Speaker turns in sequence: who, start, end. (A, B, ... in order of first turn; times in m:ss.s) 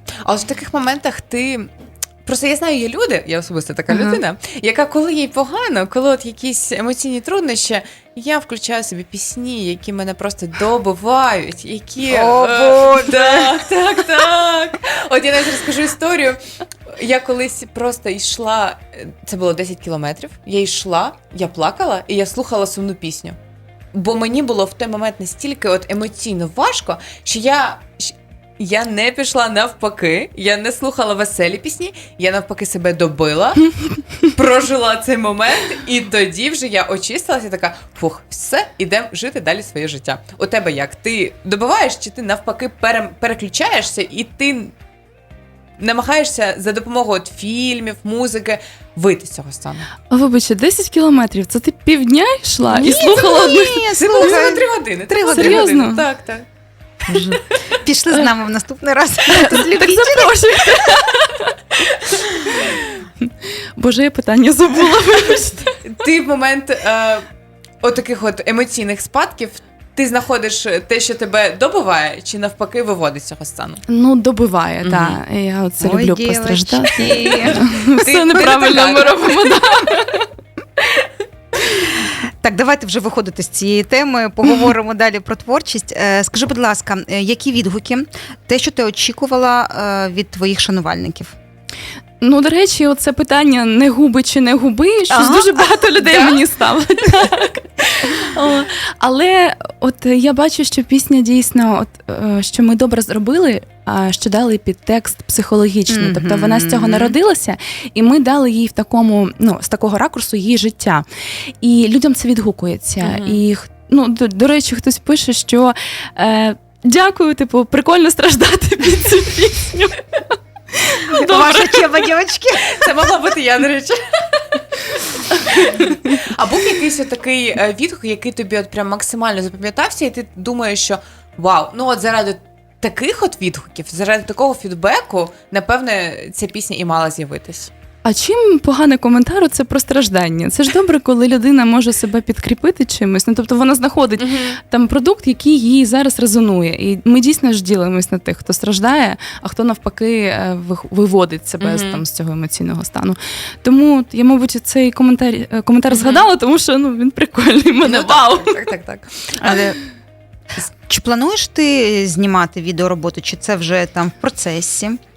0:00.2-0:01.7 A
0:02.2-0:16.4 A
0:03.9-0:04.2 B
0:12.0-0:13.5 C
0:16.9-0:23.4 A
0:23.9-0:33.7 A
0:34.3-0:44.7 A
0:45.8-0:49.9 A
0:50.1-0:54.3 B
0:52.7-0:55.9 C
0:54.0-0:56.4 A
0:55.3-0:56.0 B
0:57.1-1:00.5 C
0:59.3-1:05.8 B
1:05.8-1:07.2 A
1:07.8-1:13.8 A
1:13.9-1:20.3 B
1:14.8-1:15.2 A
1:15.8-1:17.6 C
1:17.7-1:19.7 A
1:22.0-1:31.3 C
1:32.2-2:02.0 B
1:35.1-1:36.4 C
1:45.9-1:47.1 C
1:53.0-1:53.4 A
2:01.1-2:02.6 C
2:02.6-2:17.7 A
2:18.0-2:38.6 B
2:24.2-2:24.6 A
2:31.6-2:32.0 A
2:35.9-2:36.3 A
2:37.8-2:39.6 A
2:39.4-2:39.8 C
2:40.6-2:45.0 C